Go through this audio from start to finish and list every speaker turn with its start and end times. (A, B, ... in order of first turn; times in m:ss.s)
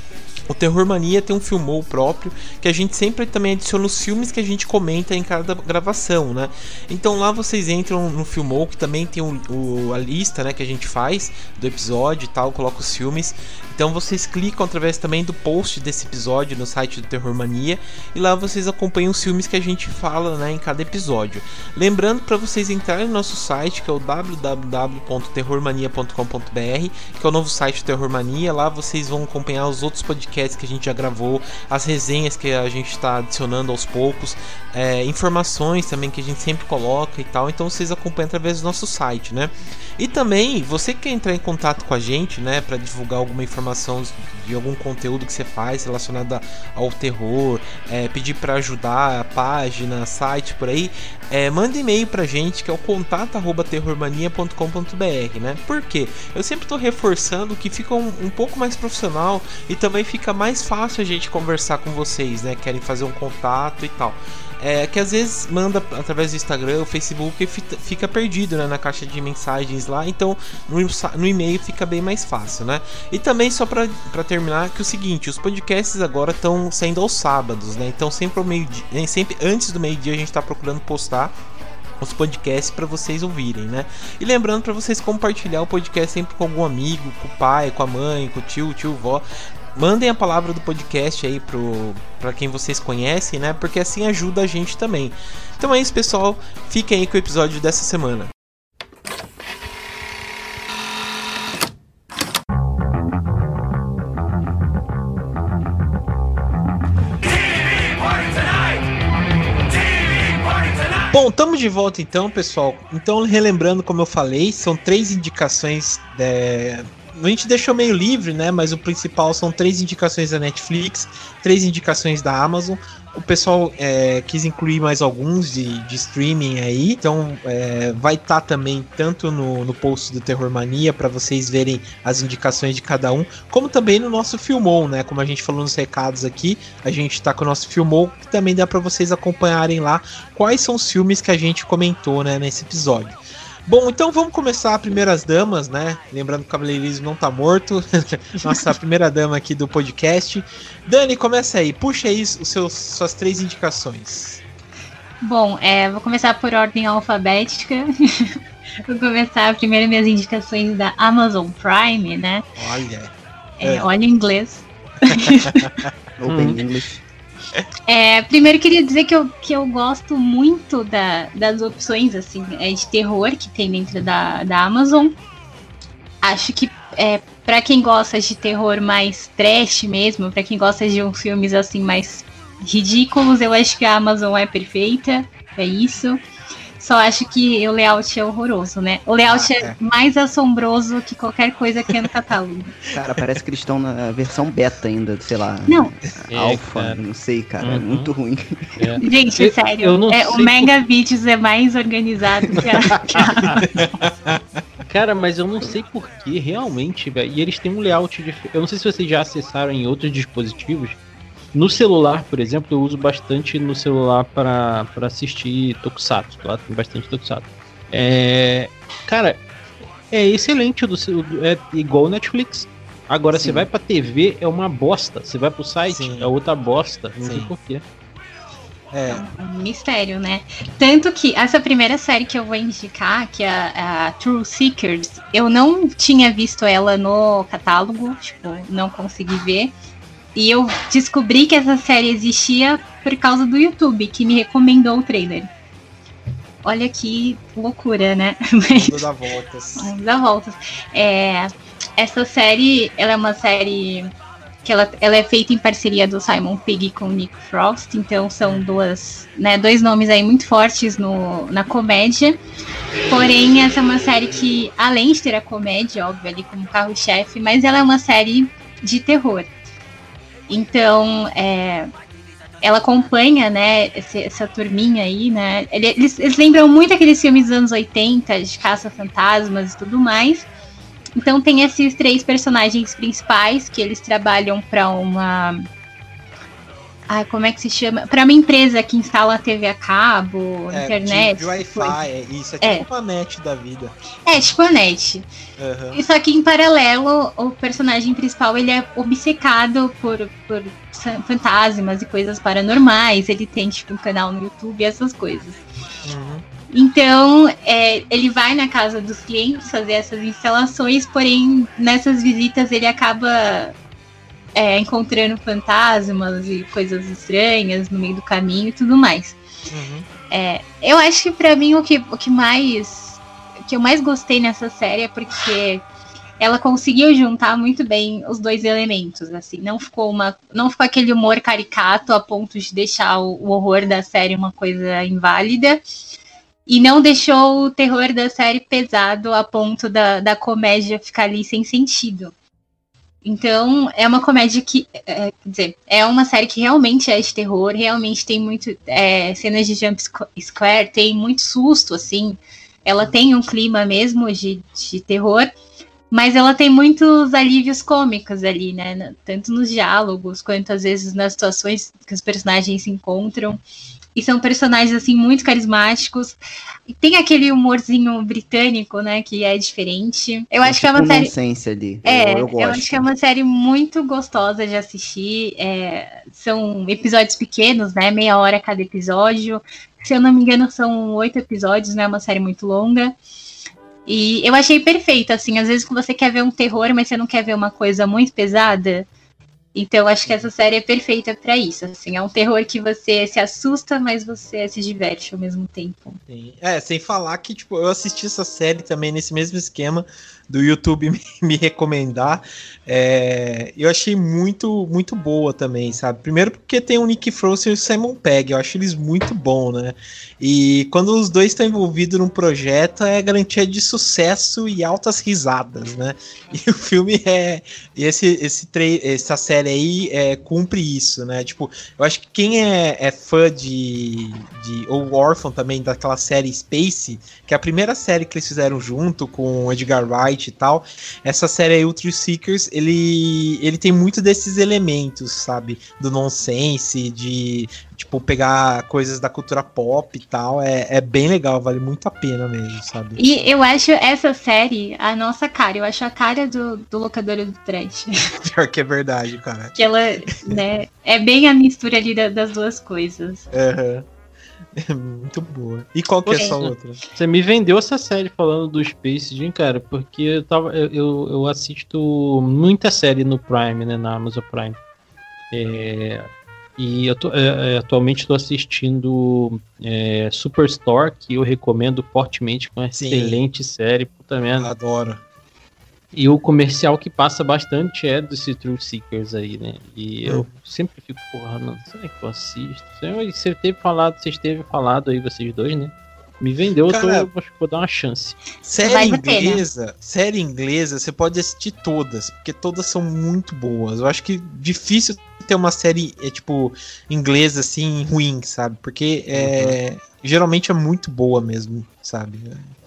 0:00.5-1:21.4 A
1:22.0-1:29.2 A
1:29.8-1:38.3 A
1:51.1-2:34.4 A
2:35.2-2:42.4 B
2:42.6-2:43.9 A
2:43.6-2:45.6 B
2:45.1-2:45.9 A
2:46.2-2:47.0 C
2:46.2-2:46.6 D
2:47.9-2:55.2 B
2:56.2-3:06.2 B
3:06.8-3:12.8 B
3:09.3-3:09.8 A
3:12.9-3:18.4 C
3:15.7-3:15.9 B
3:16.3-3:17.0 D
3:17.6-3:18.1 D
3:18.8-3:20.7 D
3:19.0-3:23.6 B
3:22.6-3:23.9 D
3:23.8-3:24.4 A
3:24.9-3:31.0 D
3:31.5-3:39.4 D
3:40.1-3:47.8 D
3:45.9-3:46.3 A
3:47.2-3:47.5 A
3:48.9-3:49.2 A
3:49.1-3:59.7 B
4:00.4-4:05.5 B
4:06.6-4:09.0 B
4:08.7-4:09.9 A
4:09.8-4:14.1 B
4:14.6-4:22.4 B
4:23.1-4:29.5 B
4:30.5-4:31.9 B
4:32.6-4:40.5 B
4:41.2-4:45.6 B
4:47.1-4:52.0 B
4:50.7-4:53.9 A
4:52.6-4:52.9 B
4:54.3-4:55.3 B
4:55.6-4:56.0 A
4:55.9-5:05.6 B
5:06.0-5:06.4 A
5:06.7-5:13.8 B
5:14.6-5:19.4 B
5:19.7-5:20.1 A
5:20.3-5:25.8 B
5:26.4-5:35.8 B
5:36.7-5:42.3 B
5:43.2-5:55.5 B
5:56.1-6:03.6 B
6:04.2-6:11.3 B
6:10.6-6:13.1 C
6:12.0-6:23.2 B
6:24.1-6:29.1 B
6:29.8-6:36.2 B
6:36.3-7:23.2 A
7:23.2-7:28.3 B
7:28.4-7:29.8 A
7:29.8-7:33.5 B
7:33.5-7:34.1 A
7:34.8-7:37.0 A
7:36.3-7:44.8 D
7:36.3-7:36.6 B
7:45.5-7:54.7 D
7:53.0-7:53.4 A
7:54.6-7:55.2 A
7:56.1-8:08.4 D
8:06.9-8:07.3 A
8:08.6-8:22.6 A
8:08.8-8:09.6 B
8:19.3-8:19.8 D